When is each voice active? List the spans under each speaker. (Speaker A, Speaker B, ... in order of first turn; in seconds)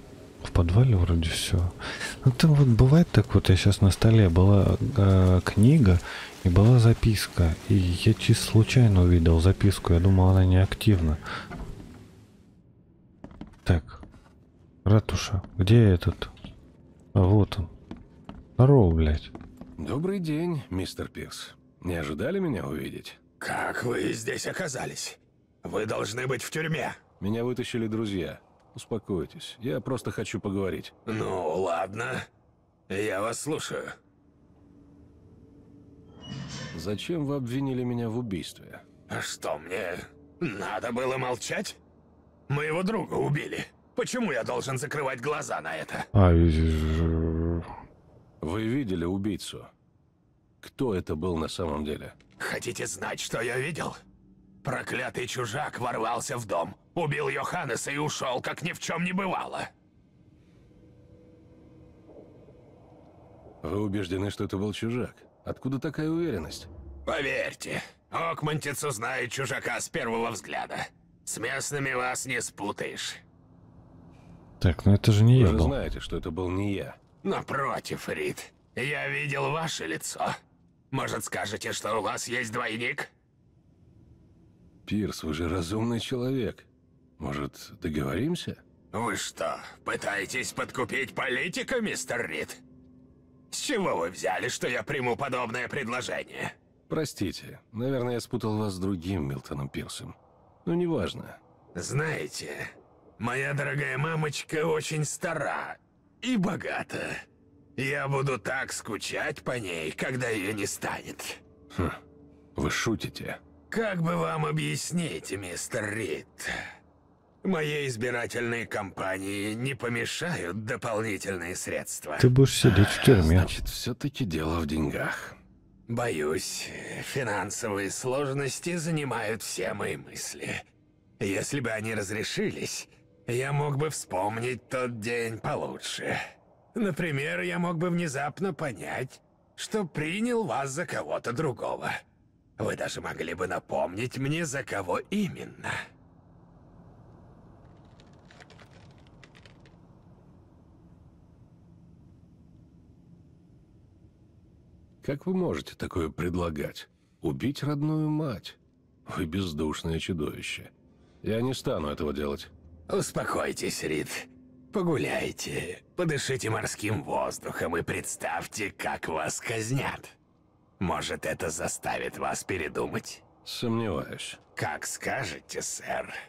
Speaker A: 0.4-11.2, 13.6-14.0, 14.8-16.3, 17.1-17.7, 18.6-19.3, 46.1-47.7, 74.6-75.8, 122.2-123.6
Speaker B: 19.8-23.2, 27.2-30.9, 36.7-38.8, 48.4-49.7, 50.6-52.1, 63.6-66.7, 75.3-77.0, 84.9-86.7, 87.2-88.6, 96.9-101.4, 112.5-113.4, 123.2-125.4, 155.0-160.7, 161.2-162.5, 173.4-174.4
Speaker C: 23.4-27.0, 31.1-32.2, 32.9-33.9, 39.1-41.8, 42.5-46.1, 52.4-54.0, 54.6-59.7, 67.0-73.2, 77.2-80.4, 80.9-83.1, 88.9-92.6, 93.5-96.5, 101.7-107.2, 107.8-111.4, 113.7-116.5, 117.4-122.3, 125.9-130.6, 131.2-136.2, 136.7-142.0, 142.6-145.8, 162.9-170.1, 170.8-173.2, 174.6-176.1